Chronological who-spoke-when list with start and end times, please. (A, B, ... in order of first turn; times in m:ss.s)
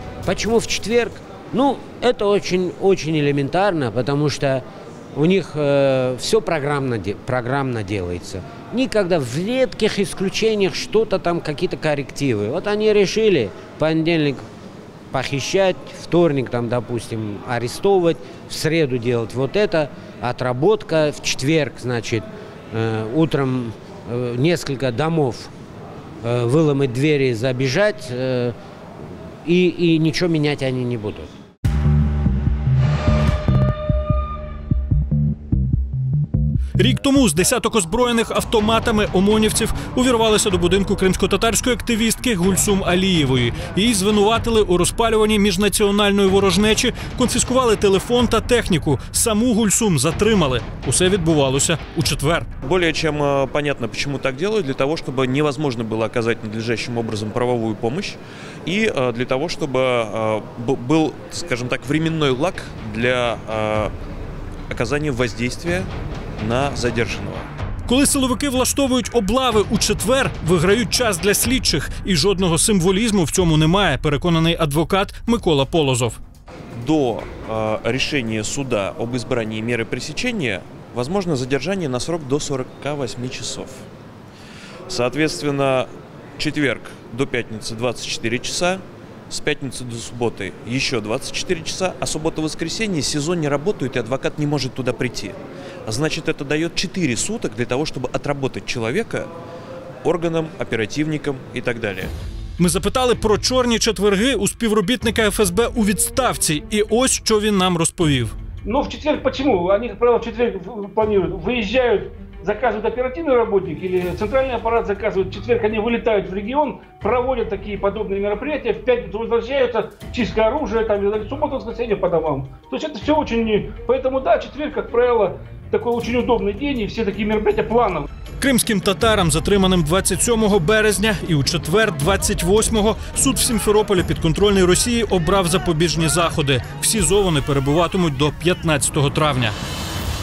0:00.2-0:14.4 A
0:15.1-0:25.5 A
0:26.2-0:28.6 A
0:29.4-0:31.3 A
0:36.8-0:52.5 B
0:52.6-1:03.9 C
1:04.7-1:07.5 C
1:07.9-1:16.2 B
1:16.8-1:23.8 C
1:24.9-1:39.3 C
1:40.0-1:42.1 C
1:42.6-1:48.3 B
1:48.6-2:08.0 D
2:08.4-2:19.6 B